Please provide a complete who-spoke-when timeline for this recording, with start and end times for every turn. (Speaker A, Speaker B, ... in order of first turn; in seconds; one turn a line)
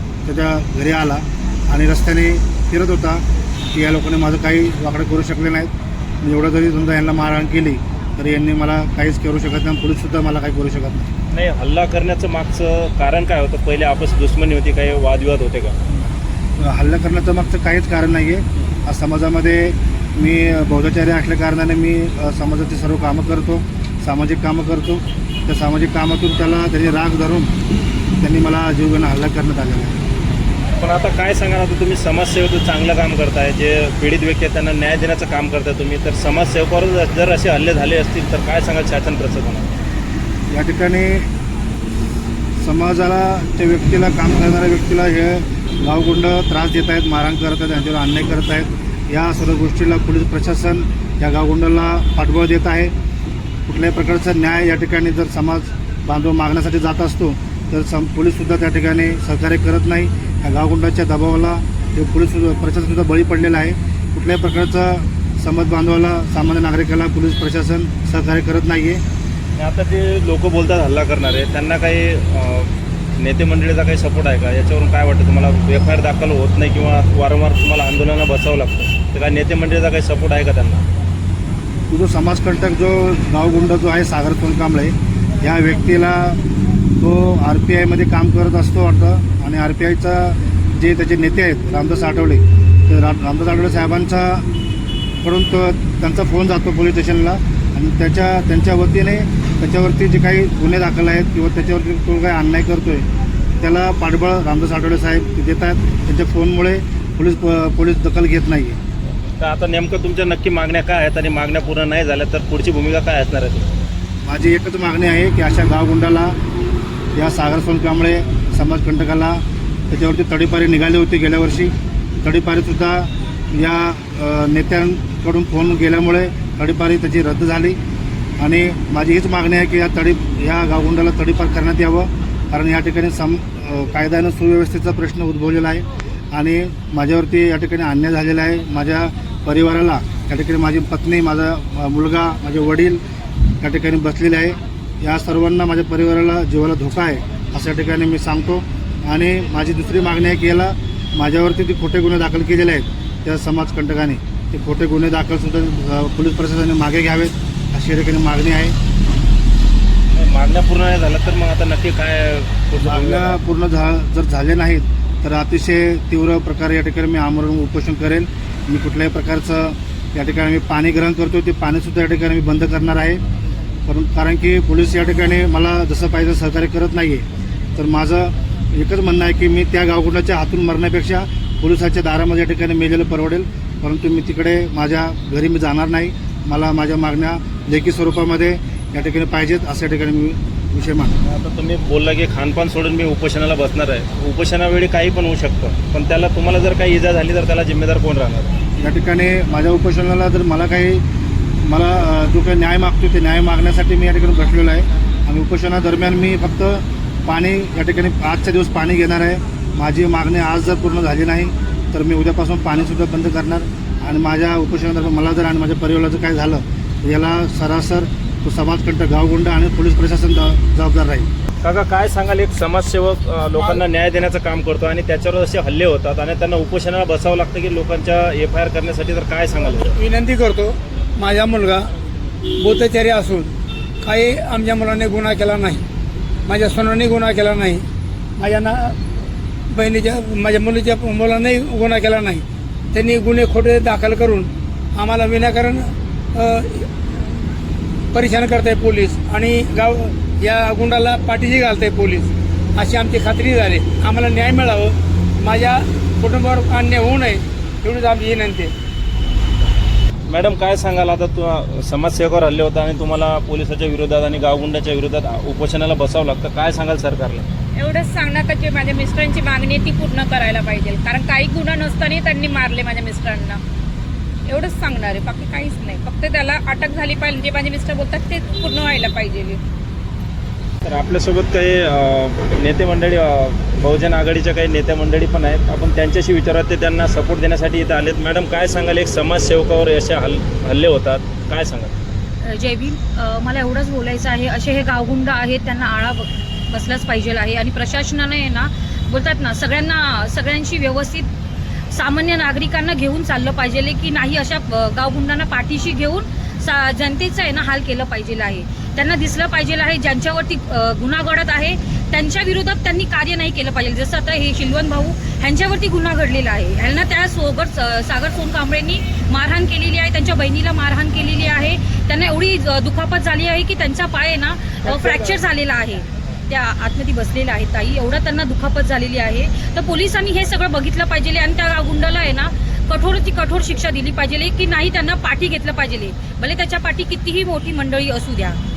Speaker A: 0.2-11.1
Speaker B: 11.3-15.8
Speaker A: 15.9-27.5
Speaker A: 28.2-30.0
Speaker B: 30.8-39.7
Speaker A: 40.5-41.3
Speaker A: 42.6-52.9
Speaker A: 53.7-69.0
Speaker B: 69.5-80.8
Speaker A: 81.9-86.4
Speaker A: 87.0-94.5
Speaker A: 95.2-103.1
Speaker A: 103.6-108.8
Speaker B: 109.4-113.7
Speaker A: 114.2-116.3
Speaker A: 117.1-127.8
Speaker A: 128.4-143.0
Speaker A: 143.6-158.8
Speaker B: 160.1-163.4
Speaker A: 162.8-173.2
Speaker A: 173.8-191.1
Speaker B: 191.2-198.5
Speaker A: 198.8-201.0
Speaker A: 201.6-221.3
Speaker B: 221.6-229.9
Speaker C: 229.7-231.9
Speaker C: 232.5-235.8
Speaker C: 236.4-237.8
Speaker C: 238.4-239.0
Speaker C: 239.7-246.9
Speaker C: 248.1-258.7
Speaker B: 260.3-267.4
Speaker D: 267.8-273.6
Speaker E: 267.8-273.2
Speaker D: 274.5-279.6
Speaker B: 280.8-291.9
Speaker E: 292.4-301.3
Speaker E: 301.9-338.6